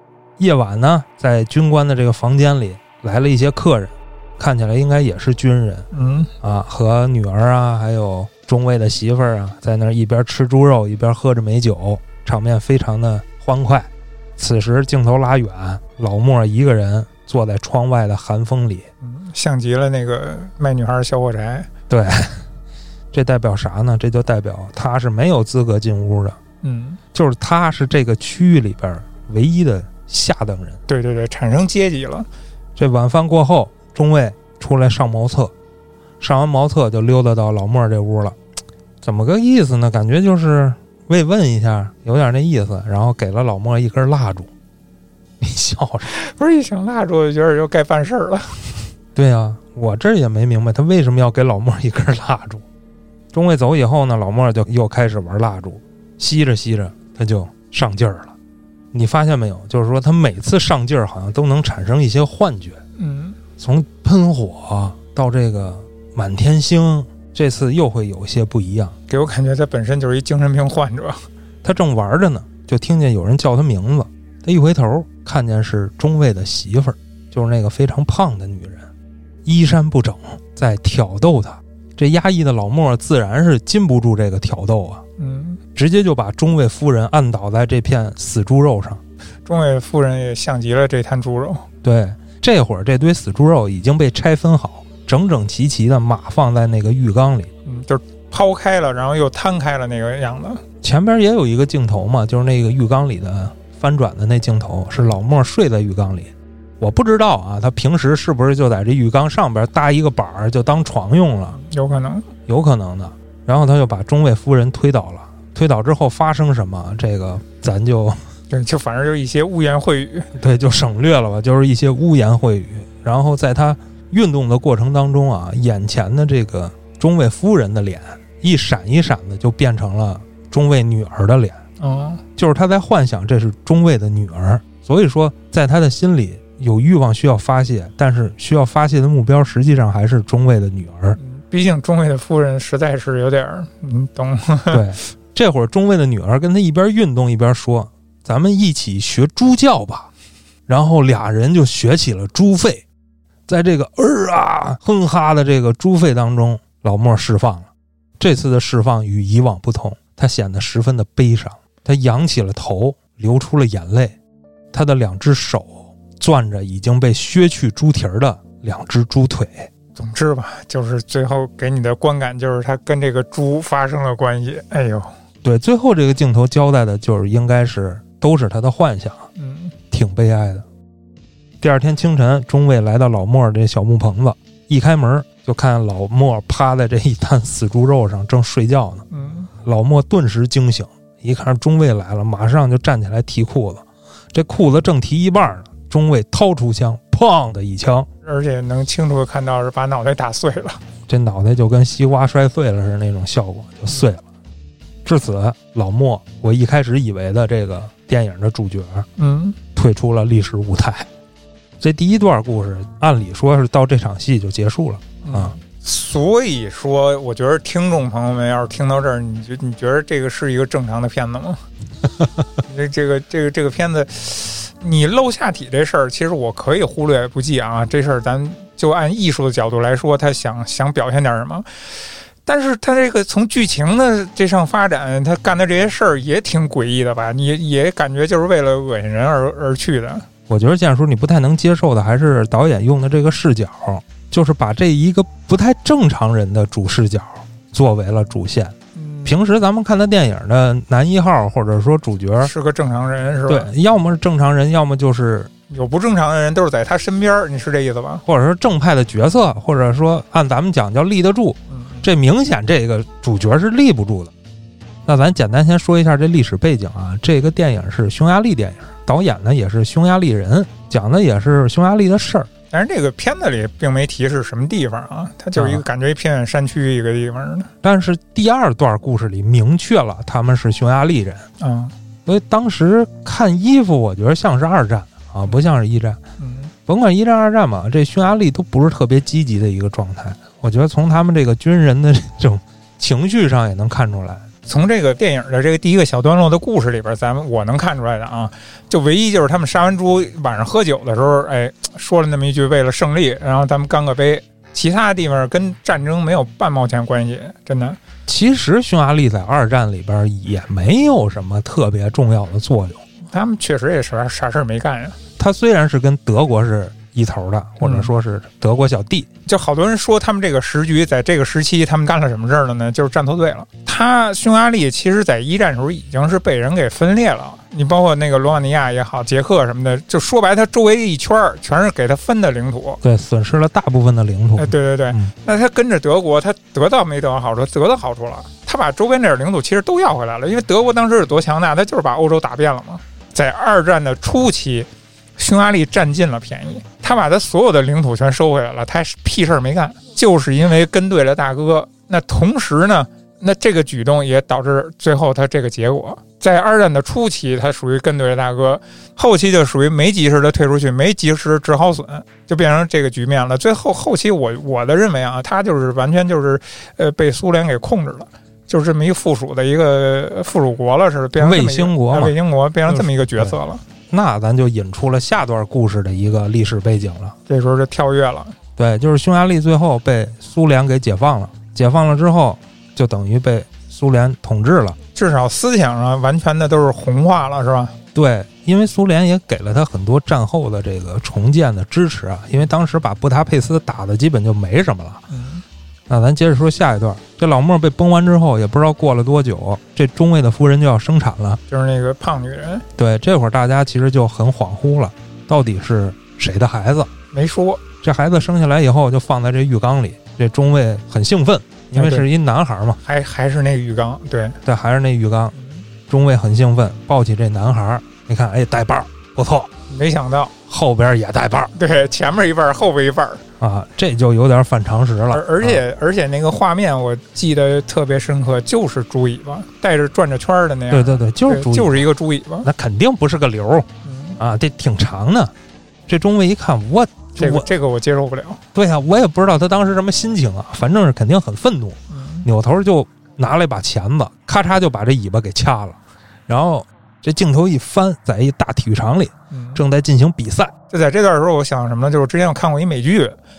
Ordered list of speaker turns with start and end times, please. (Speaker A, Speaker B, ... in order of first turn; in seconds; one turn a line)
Speaker A: 0.4-5.9
Speaker B: 5.9-6.3
Speaker A: 6.4-18.9
Speaker B: 19.0-21.7
Speaker A: 21.9-22.4
Speaker A: 23.1-26.4
Speaker B: 26.6-27.0
Speaker A: 27.1-30.8
Speaker B: 30.9-32.3
Speaker A: 32.8-35.5
Speaker A: 36.2-38.4
Speaker A: 39.0-44.5
Speaker A: 45.4-46.1
Speaker B: 46.1-48.7
Speaker A: 49.1-52.6
Speaker A: 53.3-58.3
Speaker A: 58.9-62.8
Speaker B: 63.0-63.4
Speaker A: 63.6-68.9
Speaker B: 69.1-71.2
Speaker A: 71.6-78.9
Speaker A: 79.4-85.0
Speaker B: 85.2-85.6
Speaker A: 85.7-89.0
Speaker B: 89.5-91.6
Speaker A: 91.8-97.5
Speaker B: 97.7-100.6
Speaker A: 100.8-111.6
Speaker B: 111.5-112.3
Speaker A: 112.5-118.2
Speaker B: 118.5-120.3
Speaker A: 120.3-131.6
Speaker B: 131.8-132.2
Speaker A: 132.4-141.2
Speaker B: 141.2-144.8
Speaker A: 144.7-150.1
Speaker A: 150.7-152.8
Speaker A: 153.5-164.1
Speaker A: 164.7-169.7
Speaker B: 169.9-175.1
Speaker A: 175.4-179.2
Speaker B: 179.3-179.7
Speaker A: 179.9-180.7
Speaker A: 181.6-189.0
Speaker B: 189.1-189.5
Speaker A: 189.6-198.1
Speaker B: 198.2-200.8
Speaker A: 201.1-204.2
Speaker A: 205.0-209.1
Speaker B: 209.2-209.6
Speaker A: 209.7-211.1
Speaker A: 211.8-215.5
Speaker B: 215.2-221.6
Speaker B: 222.6-231.7
Speaker B: 232.4-240.2
Speaker A: 240.5-252.5
Speaker B: 248.9-249.4
Speaker B: 252.4-253.7
Speaker A: 253.5-255.5
Speaker B: 255.7-258.2
Speaker A: 258.2-264.3
Speaker B: 261.7-262.1
Speaker A: 265.1-272.5
Speaker B: 272.7-277.7
Speaker A: 275.6-275.8
Speaker A: 277.8-281.5
Speaker B: 281.6-281.9
Speaker A: 282.2-286.2
Speaker B: 286.4-286.7
Speaker A: 286.9-294.4
Speaker B: 294.6-308.0
Speaker A: 308.3-313.0
Speaker B: 313.3-315.2
Speaker A: 315.4-319.3
Speaker B: 317.8-318.1
Speaker B: 319.4-333.0
Speaker A: 333.0-335.3
Speaker B: 334.6-373.8
Speaker A: 371.4-372.4
Speaker A: 372.9-373.6
Speaker A: 374.1-377.3
Speaker B: 377.5-378.5
Speaker A: 378.8-385.0
Speaker B: 385.1-387.9
Speaker A: 388.1-395.2
Speaker B: 395.3-395.6
Speaker A: 396.1-401.6
Speaker B: 401.7-402.9
Speaker A: 403.0-407.1
Speaker B: 407.3-407.8
Speaker A: 408.0-413.0
Speaker B: 411.9-412.2
Speaker B: 413.0-414.6
Speaker A: 414.6-415.5
Speaker B: 415.5-415.8
Speaker A: 416.1-419.7
Speaker B: 419.9-420.5
Speaker A: 420.7-421.7
Speaker B: 421.7-423.4
Speaker A: 423.6-425.8
Speaker B: 425.3-432.7
Speaker A: 430.9-432.1
Speaker A: 432.6-433.9
Speaker B: 434.0-434.4
Speaker A: 434.4-435.5
Speaker A: 436.1-437.7
Speaker B: 437.4-438.6
Speaker A: 438.7-450.7
Speaker B: 442.1-442.4
Speaker B: 449.5-449.8
Speaker B: 450.9-453.4